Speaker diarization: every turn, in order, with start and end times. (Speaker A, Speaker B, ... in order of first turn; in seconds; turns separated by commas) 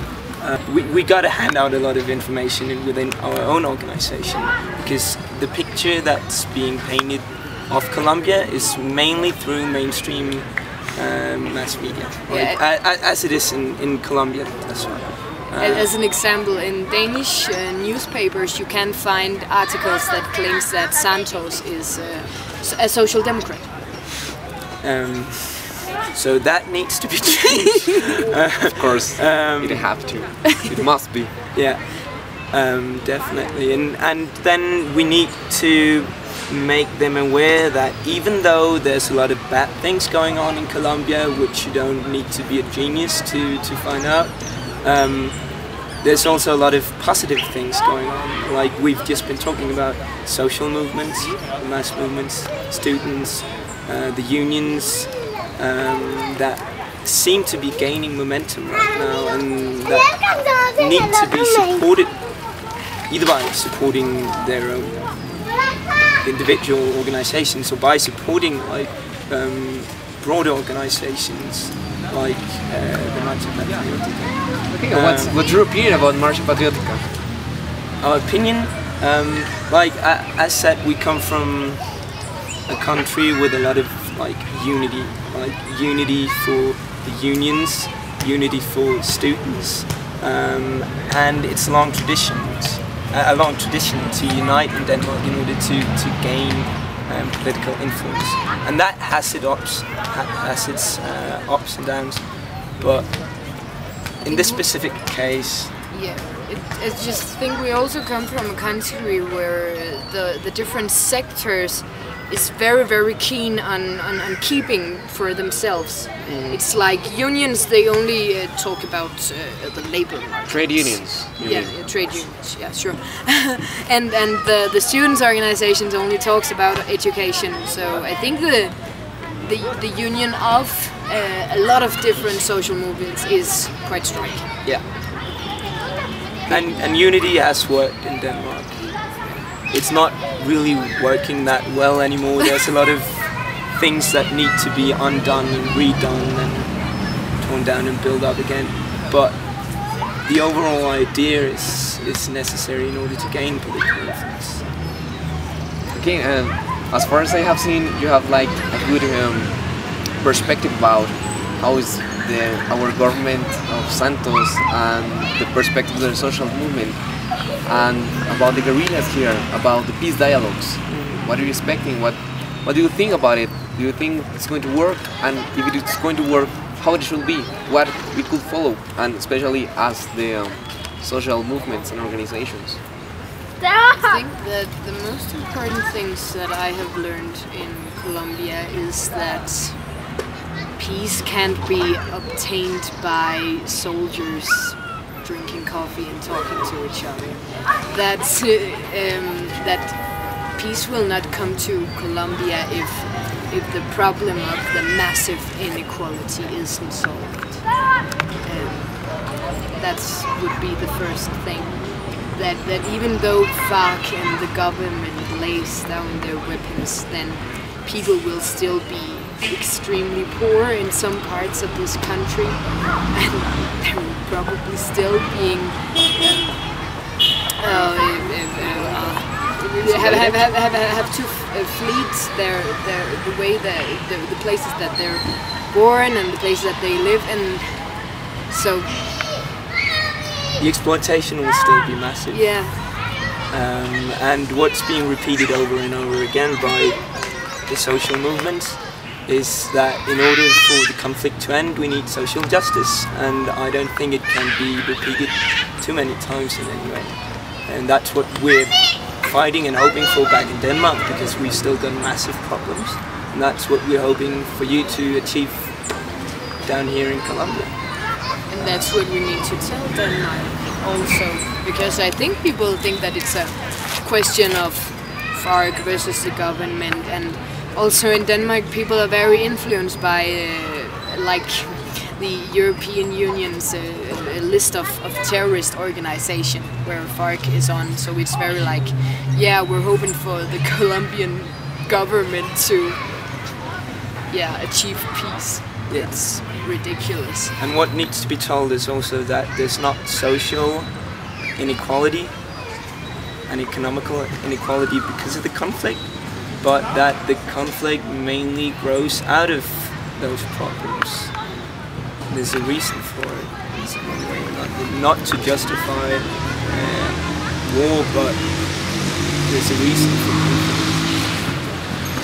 Speaker A: 0.4-15.9, Speaker B: 12.3-12.6, Speaker B: 15.5-24.0, Speaker A: 24.8-30.1, Speaker C: 28.7-31.3, Speaker A: 31.5-65.6, Speaker A: 66.2-75.4, Speaker C: 74.7-77.1, Speaker A: 78.0-82.1, Speaker A: 82.7-103.6, Speaker A: 104.2-105.7, Speaker B: 104.2-104.9, Speaker B: 105.9-134.5, Speaker C: 116.2-116.6, Speaker C: 120.5-121.8, Speaker C: 136.4-136.8, Speaker A: 136.5-154.7, Speaker C: 155.9-182.8, Speaker A: 170.9-171.2, Speaker B: 183.9-189.9, Speaker B: 190.8-207.8, Speaker B: 208.4-238.9, Speaker A: 229.8-230.5, Speaker A: 240.6-242.8, Speaker B: 242.3-242.8, Speaker A: 243.5-267.8, Speaker B: 268.5-293.4, Speaker B: 294.3-297.6, Speaker A: 295.9-296.2, Speaker A: 297.6-302.4, Speaker A: 303.5-311.5, Speaker A: 312.3-321.1